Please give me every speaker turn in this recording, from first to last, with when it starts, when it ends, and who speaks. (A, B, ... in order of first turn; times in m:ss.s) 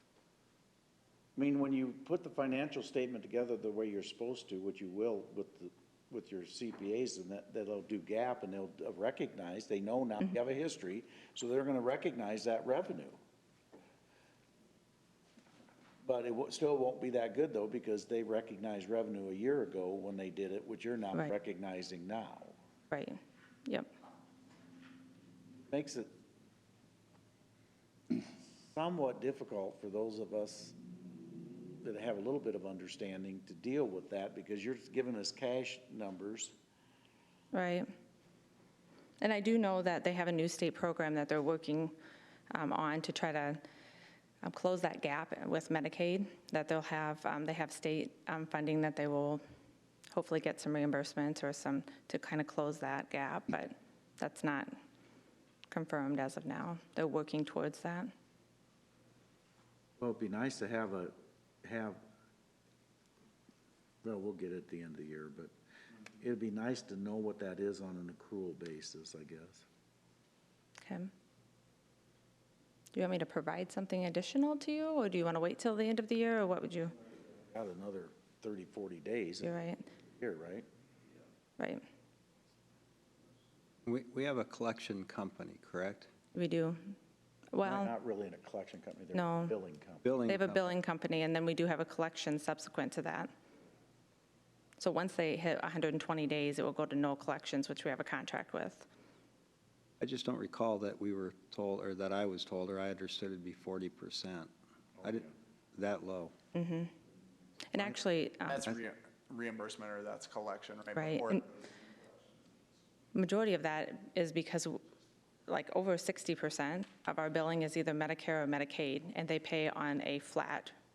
0:01.4-0:13.2 A
0:16.0-0:22.6 A
0:22.9-0:23.9 B
0:25.7-0:26.1 A
0:28.7-0:30.8 A
0:31.8-0:36.5 A
0:37.5-0:37.8 B
0:39.2-0:41.9 B
0:42.5-0:43.6 B
0:44.4-0:49.4 B
0:50.1-0:54.8 B
0:55.7-0:58.1 B
1:00.0-1:02.0 A
1:04.0-1:05.5 A
1:06.2-1:09.6 A
1:10.8-1:11.1 B
1:12.9-1:16.9 B
1:17.4-1:19.5 A
1:19.4-1:19.8 B
1:20.2-1:20.6 A
1:23.8-1:26.1 C
1:26.3-1:26.9 B
1:27.5-1:27.9 B
1:27.6-1:30.0 A
1:29.1-1:29.5 B
1:30.0-1:30.7 C
1:30.2-1:33.3 B
1:34.8-1:38.9 B
1:40.0-1:46.3 C
1:46.5-1:46.9 B
1:47.7-1:48.7 B
1:47.7-1:51.5 D
1:50.9-1:51.4 B
1:53.1-1:54.8 B
1:55.5-2:00.7 B